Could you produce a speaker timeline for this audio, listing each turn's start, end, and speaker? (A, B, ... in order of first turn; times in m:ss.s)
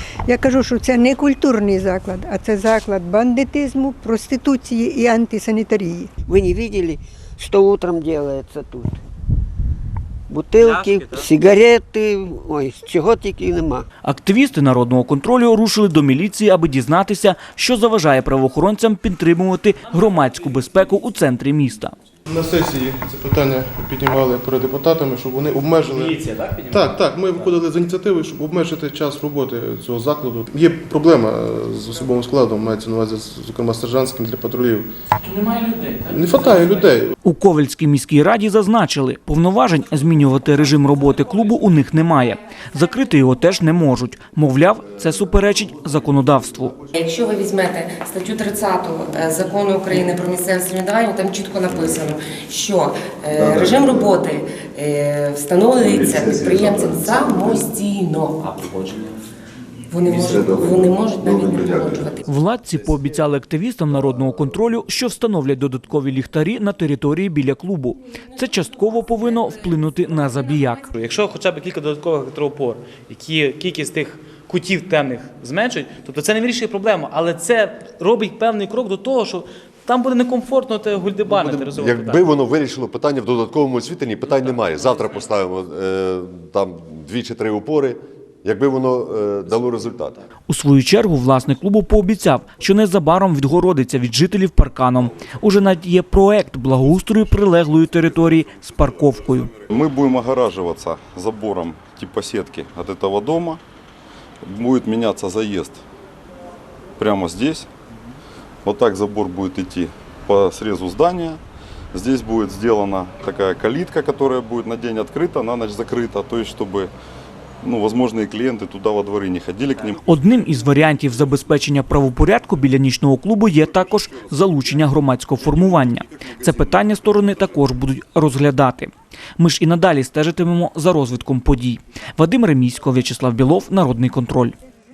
0:00.3-0:06.1 A
0:06.3-0:09.0 B
0:10.3-0:13.8 B
0:10.6-0:11.2 C
0:14.0-0:21.9 D
0:22.3-0:34.9 E
0:25.9-0:27.5 C
0:35.2-0:36.8 C
0:36.1-0:37.1 E
0:37.2-0:46.8 D
0:46.9-0:58.8 F
0:59.9-1:02.2 F
1:02.2-1:10.9 D
1:10.9-1:22.2 C
1:21.2-1:30.2 G
1:30.5-1:39.5 D
1:39.7-1:43.6 H
1:44.4-1:45.8 H
1:47.0-1:47.7 H
1:48.6-1:51.4 H
1:51.9-1:56.9 H
1:57.6-2:00.0 H
2:00.0-2:14.6 D